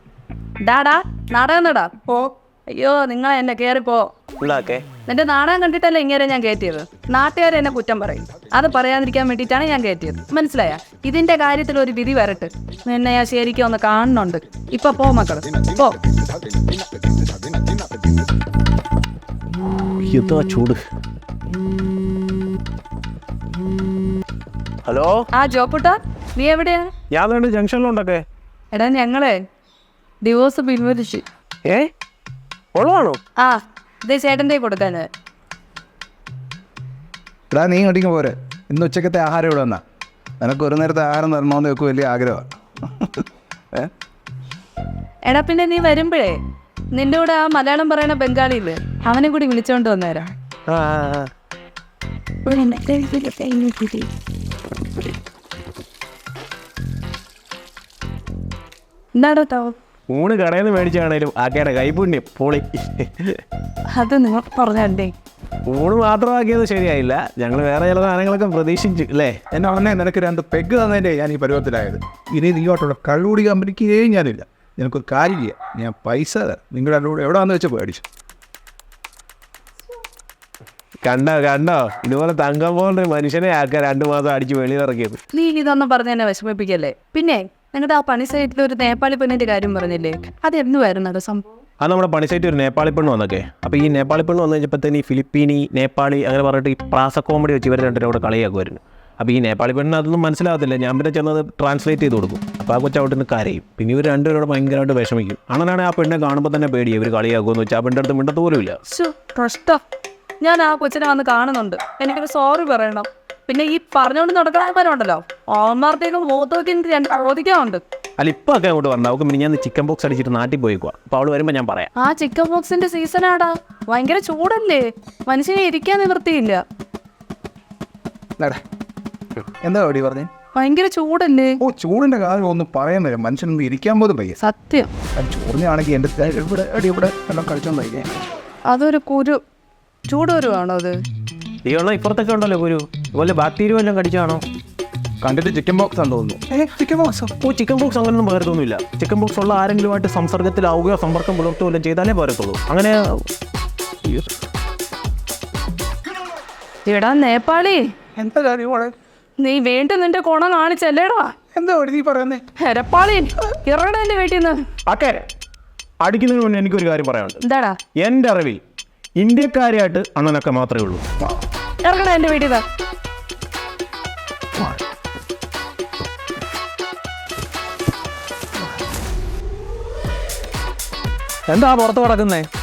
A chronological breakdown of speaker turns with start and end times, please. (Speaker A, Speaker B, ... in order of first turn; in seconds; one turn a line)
Speaker A: 0.6-4.1
Speaker B: 4.4-4.8
Speaker A: 5.1-16.0
Speaker B: 19.8-20.8
Speaker B: 24.9-25.2
Speaker A: 25.3-26.9
Speaker B: 27.1-28.2
Speaker A: 28.7-29.4
Speaker A: 30.2-31.2
Speaker B: 32.8-33.2
Speaker A: 33.4-35.1
Speaker C: 37.5-39.8
Speaker C: 40.4-43.9
Speaker A: 45.3-46.4
Speaker A: 46.9-50.3
Speaker B: 50.7-51.3
Speaker A: 52.5-54.1
Speaker A: 59.2-59.7
Speaker B: 60.1-63.4
Speaker A: 63.9-65.1
Speaker B: 65.7-69.4
Speaker C: 69.5-78.0
Speaker B: 81.0-85.2
Speaker A: 85.3-91.4
Speaker B: 91.8-108.8
Speaker A: 108.9-109.8
Speaker A: 110.4-117.8
Speaker B: 118.2-121.9
Speaker A: 122.0-126.6
Speaker C: 129.6-130.3
Speaker A: 130.6-131.6
Speaker C: 131.6-134.4
Speaker A: 134.4-134.9
Speaker C: 135.2-138.1
Speaker A: 138.7-139.4
Speaker A: 140.1-141.0
Speaker B: 141.7-144.4
Speaker C: 145.2-147.3
Speaker B: 147.4-153.2
Speaker A: 156.9-157.9
Speaker C: 158.2-158.9
Speaker A: 159.4-161.3
Speaker C: 161.6-162.4
Speaker A: 162.6-164.6
Speaker B: 164.9-165.2
Speaker B: 166.1-167.4
Speaker A: 167.4-167.8
Speaker B: 168.0-168.6
Speaker B: 169.2-171.0
Speaker A: 171.8-172.6
Speaker B: 181.5-182.5